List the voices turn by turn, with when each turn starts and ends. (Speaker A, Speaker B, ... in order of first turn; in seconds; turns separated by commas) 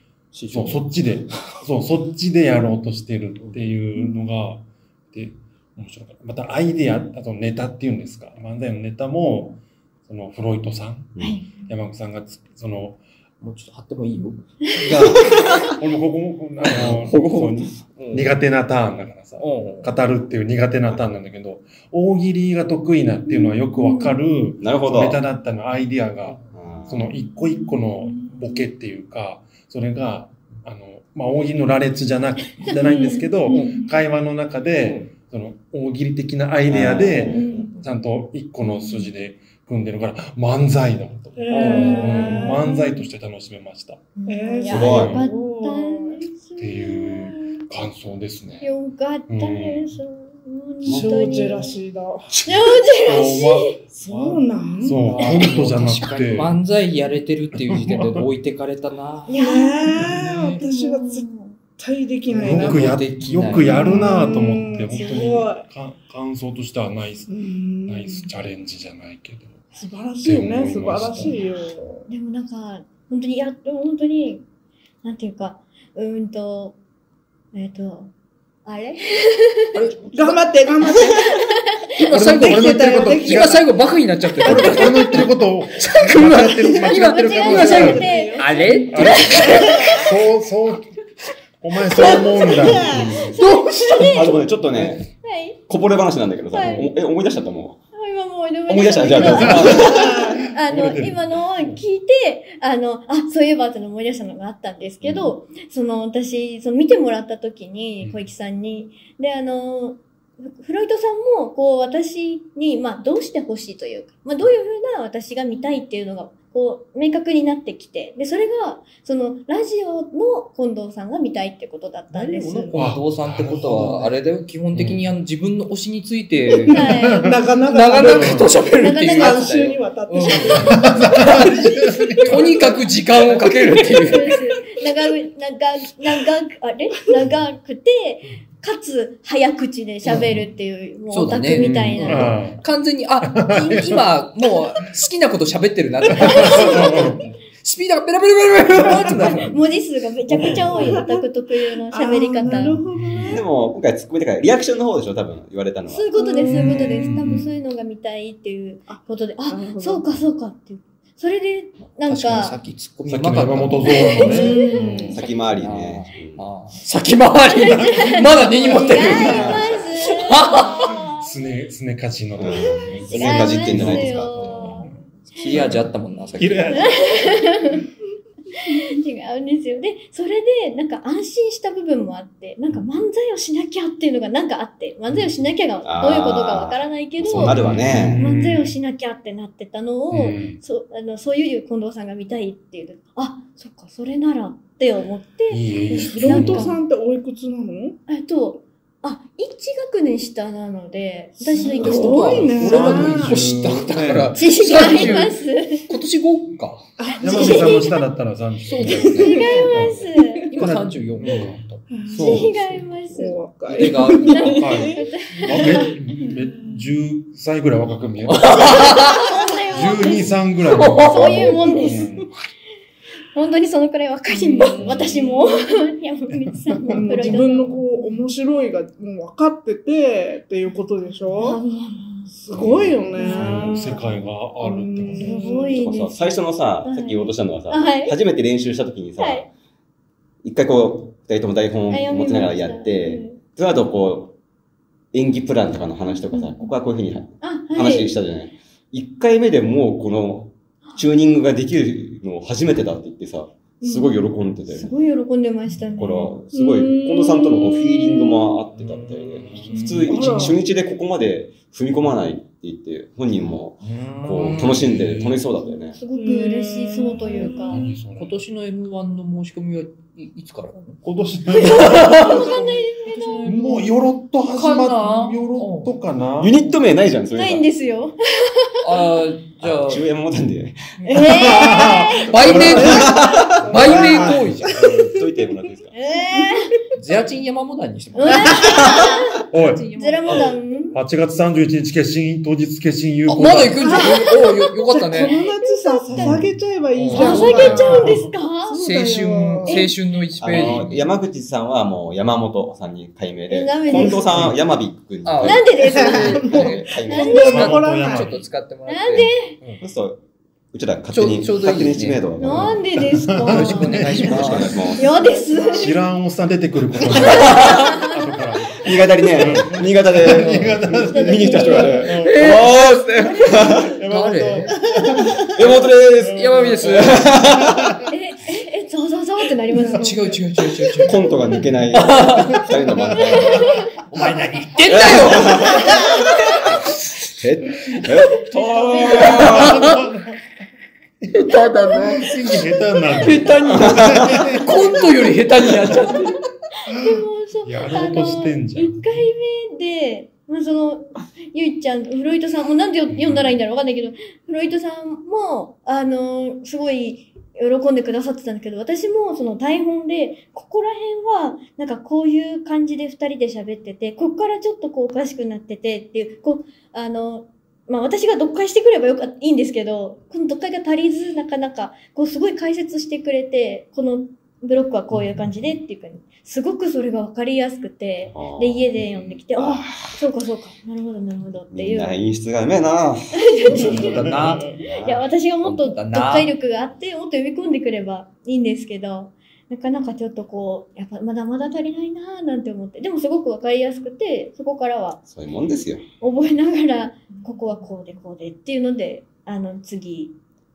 Speaker A: 0.3-1.6, Speaker B: 0.5-13.0, Speaker C: 11.2-11.6, Speaker A: 13.4-15.4, Speaker B: 14.9-44.0, Speaker D: 15.0-15.4, Speaker D: 16.7-17.9, Speaker A: 18.0-18.3, Speaker A: 19.4-19.9, Speaker C: 23.3-24.2, Speaker D: 24.6-25.2, Speaker D: 26.6-27.1, Speaker C: 32.6-33.2, Speaker E: 32.8-33.9, Speaker A: 34.9-35.1, Speaker D: 36.7-37.6, Speaker E: 37.3-37.7, Speaker C: 38.6-39.1, Speaker E: 41.4-42.9, Speaker C: 41.5-43.0, Speaker A: 41.6-42.0, Speaker C: 44.2-47.6, Speaker E: 44.3-46.3, Speaker D: 44.7-45.2, Speaker B: 44.7-45.2, Speaker B: 46.6-48.7, Speaker C: 48.6-51.7, Speaker B: 49.3-49.9, Speaker D: 50.9-51.4, Speaker E: 50.9-52.4, Speaker B: 52.3-56.6, Speaker C: 52.5-53.8, Speaker E: 54.0-55.2, Speaker A: 55.1-59.4, Speaker B: 57.5-58.3, Speaker C: 59.3-61.6, Speaker E: 59.3-61.3, Speaker A: 60.0-60.6, Speaker E: 61.8-63.0, Speaker A: 62.3-64.0, Speaker B: 62.4-67.3, Speaker E: 63.6-65.7, Speaker C: 64.1-64.4, Speaker C: 64.9-65.3, Speaker E: 67.3-68.3, Speaker B: 67.9-69.7, Speaker E: 69.7-72.1, Speaker B: 70.2-71.4, Speaker C: 72.1-74.5, Speaker C: 75.0-76.8, Speaker C: 77.5-78.1, Speaker C: 78.7-79.8, Speaker A: 79.7-80.3, Speaker E: 80.1-81.5, Speaker C: 81.4-81.8, Speaker A: 82.0-90.0, Speaker B: 82.1-83.6, Speaker E: 82.3-83.7, Speaker B: 84.4-88.1, Speaker C: 84.5-85.2, Speaker C: 86.8-89.8, Speaker E: 87.4-90.0, Speaker B: 88.9-90.9, Speaker B: 91.6-93.4, Speaker E: 91.9-93.4, Speaker C: 93.0-94.4, Speaker A: 93.3-94.3, Speaker D: 94.0-95.1, Speaker C: 95.2-95.6, Speaker D: 95.7-97.8, Speaker C: 96.5-97.0, Speaker C: 98.0-122.7, Speaker D: 98.7-100.2, Speaker B: 99.1-101.8, Speaker E: 100.0-100.5, Speaker D: 105.0-105.3, Speaker A: 122.1-126.9, Speaker B: 122.7-124.2, Speaker B: 124.7-125.0, Speaker E: 126.6-132.8, Speaker C: 126.7-127.3, Speaker A: 127.7-134.3, Speaker B: 128.0-128.5, Speaker C: 128.7-129.5, Speaker C: 130.3-130.8, Speaker B: 130.7-132.4, Speaker E: 133.4-134.1, Speaker C: 134.0-142.4, Speaker B: 140.1-140.4, Speaker A: 141.1-149.6, Speaker B: 141.6-142.6, Speaker B: 143.2-144.0, Speaker B: 146.2-147.2, Speaker C: 146.3-147.0, Speaker E: 148.9-149.4, Speaker C: 149.4-152.8, Speaker B: 150.4-150.9, Speaker E: 150.5-151.2, Speaker E: 151.9-153.4, Speaker B: 152.5-153.4, Speaker D: 153.3-156.1, Speaker C: 155.9-162.6, Speaker E: 156.2-157.1, Speaker B: 156.5-157.5, Speaker E: 158.9-160.1, Speaker A: 162.0-170.9, Speaker B: 163.1-165.2, Speaker C: 163.8-165.2, Speaker E: 164.2-165.2, Speaker D: 165.1-166.4, Speaker C: 167.5-171.3, Speaker D: 169.0-169.8, Speaker E: 169.1-169.7, Speaker B: 170.9-174.9, Speaker D: 172.4-174.4, Speaker C: 173.1-174.9, Speaker A: 174.4-176.9, Speaker B: 176.4-177.4, Speaker C: 176.7-177.9, Speaker C: 178.5-196.8, Speaker D: 185.8-188.2, Speaker B: 187.3-188.8, Speaker B: 190.1-190.6, Speaker B: 195.5-196.7, Speaker E: 195.9-198.0, Speaker C: 198.1-202.6, Speaker E: 201.4-203.4, Speaker A: 201.7-206.9, Speaker B: 202.6-204.4, Speaker C: 204.3-205.9, Speaker E: 207.0-207.9, Speaker B: 207.2-210.0, Speaker C: 207.2-207.9, Speaker A: 208.7-209.8, Speaker E: 208.8-210.7, Speaker C: 209.2-210.5, Speaker A: 210.5-211.8, Speaker B: 210.6-212.5, Speaker E: 211.9-216.8, Speaker C: 212.1-215.9, Speaker A: 213.7-214.6, Speaker B: 214.6-218.9, Speaker A: 218.2-219.3, Speaker C: 218.8-220.4, Speaker B: 219.7-222.3, Speaker A: 220.7-221.8, Speaker C: 220.9-222.1, Speaker C: 223.3-227.8, Speaker E: 224.3-225.5, Speaker B: 226.5-227.2, Speaker E: 226.9-231.6, Speaker C: 231.4-232.3, Speaker E: 232.3-234.1, Speaker D: 232.6-233.1, Speaker C: 233.2-233.9, Speaker B: 233.2-235.4, Speaker E: 234.6-235.8, Speaker C: 235.2-238.2, Speaker D: 235.7-239.5, Speaker C: 239.2-239.5, Speaker D: 240.4-244.3, Speaker C: 241.9-243.4, Speaker D: 245.1-254.9, Speaker C: 246.3-246.7, Speaker C: 247.4-248.2, Speaker C: 253.8-256.4, Speaker D: 256.0-266.0, Speaker E: 256.5-258.5, Speaker A: 258.8-260.5, Speaker B: 259.4-260.5, Speaker E: 260.1-260.6, Speaker A: 263.8-265.0, Speaker B: 264.5-265.4, Speaker C: 265.6-267.8, Speaker E: 266.1-267.9, Speaker A: 267.4-271.0, Speaker B: 267.7-268.4, Speaker B: 271.0-272.9, Speaker C: 271.5-273.6, Speaker A: 271.6-273.9, Speaker B: 273.4-276.6, Speaker A: 274.5-275.9, Speaker D: 276.4-277.7, Speaker C: 277.3-278.8, Speaker A: 278.8-280.1, Speaker D: 279.6-280.8, Speaker A: 281.0-281.3, Speaker C: 281.1-282.9, Speaker B: 281.2-284.9, Speaker A: 282.2-284.9, Speaker E: 282.5-285.5, Speaker D: 282.8-285.9, Speaker C: 285.9-286.8, Speaker A: 286.9-290.5, Speaker C: 288.2-291.0, Speaker E: 288.6-289.1, Speaker B: 289.5-289.9, Speaker B: 290.9-293.8, Speaker A: 293.3-295.3, Speaker E: 293.8-298.1, Speaker C: 294.0-294.5, Speaker C: 295.3-296.4, Speaker B: 296.1-296.4, Speaker A: 296.1-296.4, Speaker A: 296.9-298.0, Speaker C: 297.1-298.8, Speaker B: 297.3-298.3, Speaker E: 298.7-299.9, Speaker A: 298.8-301.0, Speaker D: 300.4-307.6, Speaker B: 300.5-300.9, Speaker C: 303.5-304.3, Speaker B: 304.1-304.6, Speaker A: 305.2-309.8, Speaker C: 305.4-307.6, Speaker E: 305.9-308.3, Speaker B: 307.4-308.4, Speaker C: 308.9-309.6, Speaker D: 309.8-310.2, Speaker D: 310.7-312.8, Speaker A: 311.1-312.2, Speaker C: 312.4-316.0, Speaker B: 312.5-314.8, Speaker A: 313.4-314.8, Speaker D: 314.2-315.1, Speaker E: 315.1-315.9, Speaker B: 315.8-322.6, Speaker C: 317.1-318.3, Speaker A: 317.4-317.9, Speaker D: 318.8-324.0, Speaker A: 320.4-320.7, Speaker C: 320.9-322.1, Speaker A: 322.1-322.8, Speaker B: 323.6-328.1, Speaker A: 324.0-324.8, Speaker D: 325.4-328.0, Speaker A: 326.3-327.3, Speaker C: 328.1-330.4, Speaker A: 329.9-331.2, Speaker D: 331.0-333.8, Speaker A: 331.9-332.7, Speaker B: 332.8-334.8, Speaker C: 333.3-333.8, Speaker A: 334.1-336.1, Speaker D: 334.9-339.9, Speaker B: 338.5-340.4, Speaker C: 338.8-339.5, Speaker A: 339.0-340.0, Speaker B: 341.2-345.1, Speaker A: 341.3-342.6, Speaker A: 343.1-346.4, Speaker D: 343.7-344.6, Speaker C: 346.8-382.2, Speaker B: 346.9-349.2, Speaker B: 353.1-353.6, Speaker D: 378.3-380.2, Speaker D: 381.7-385.2, Speaker C: 383.3-384.3, Speaker A: 383.7-384.7, Speaker B: 383.8-384.7, Speaker C: 385.0-395.2, Speaker A: 385.6-386.5, Speaker D: 395.3-396.0, Speaker C: 396.2-400.4